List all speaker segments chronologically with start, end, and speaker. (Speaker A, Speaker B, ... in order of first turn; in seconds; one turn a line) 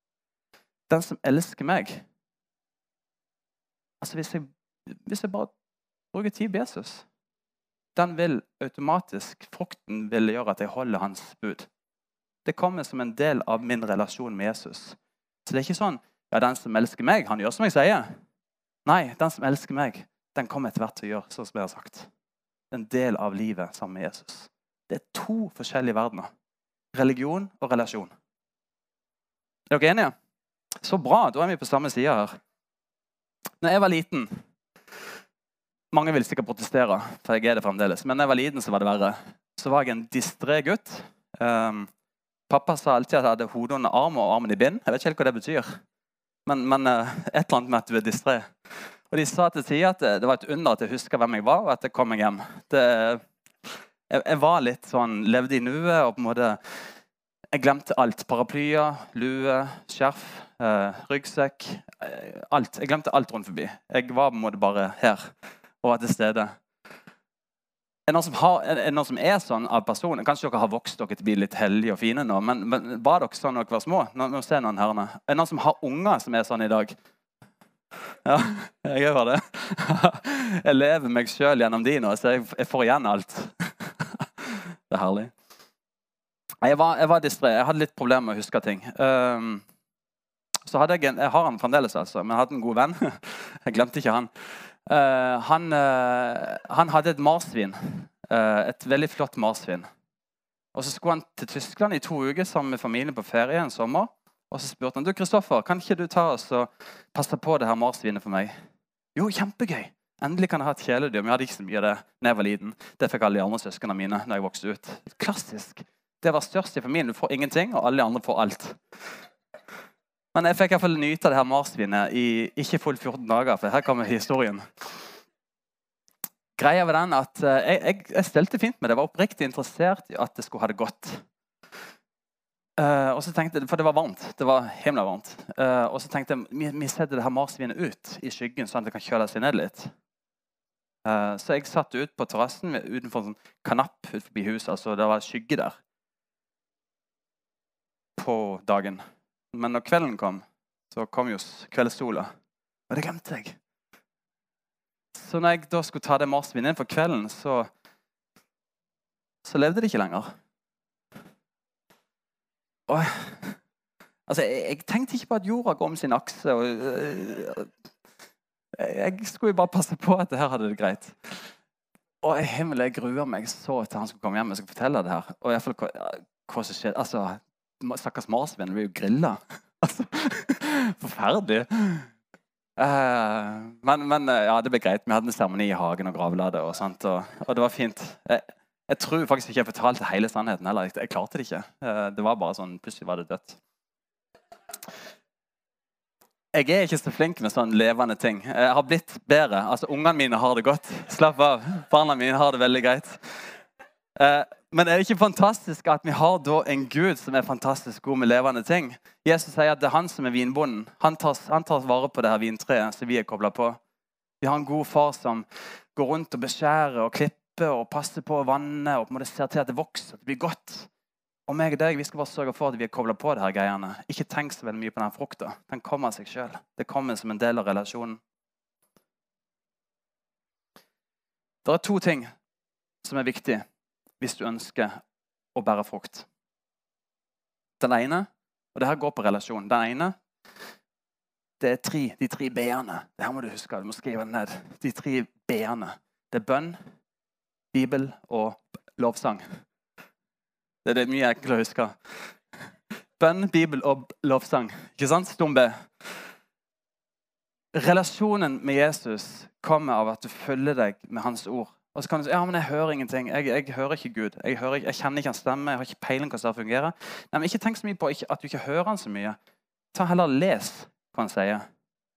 Speaker A: 0.9-2.0
Speaker A: 4.0-5.5
Speaker A: 6.1-7.0
Speaker A: 7.9-11.7
Speaker A: 12.4-18.1
Speaker A: 18.9-22.1
Speaker A: 22.7-26.3
Speaker A: 26.9-28.1
Speaker A: 29.7-30.1
Speaker A: 30.8-32.3
Speaker A: 33.6-34.3
Speaker A: 35.9-41.9
Speaker A: 42.5-45.8
Speaker A: 46.5-48.5
Speaker A: 49.1-53.2
Speaker A: 54.1-56.8
Speaker A: 57.5-65.3
Speaker A: 65.8-66.5
Speaker A: 68.1-76.9
Speaker A: 78.2-85.3
Speaker A: 86.6-89.6
Speaker A: 90.7-94.3
Speaker A: 94.9-99.9
Speaker A: 100.7-108.5
Speaker A: 109.1-118.8
Speaker A: 120.3-124.6
Speaker A: 126.6-131.2
Speaker A: 132.8-139.9
Speaker A: 141.0-145.8
Speaker A: 148.2-149.0
Speaker A: 149.5-152.3
Speaker A: 152.9-153.6
Speaker A: 155.1-157.7
Speaker A: 159.4-160.3
Speaker A: 162.9-163.6
Speaker A: 164.3-167.7
Speaker A: 168.8-171.5
Speaker A: 172.2-182.1
Speaker A: 182.8-193.6
Speaker A: 196.5-203.2
Speaker A: 204.2-213.8
Speaker A: 214.4-220.9
Speaker A: 221.5-228.2
Speaker A: 231.6-232.3
Speaker A: 233.0-233.6
Speaker A: 234.2-235.0
Speaker A: 235.5-236.3
Speaker A: 237.8-240.2
Speaker A: 241.6-246.8
Speaker A: 247.7-249.4
Speaker A: 250.8-252.3
Speaker A: 253.2-255.8
Speaker A: 257.7-269.4
Speaker A: 269.9-271.6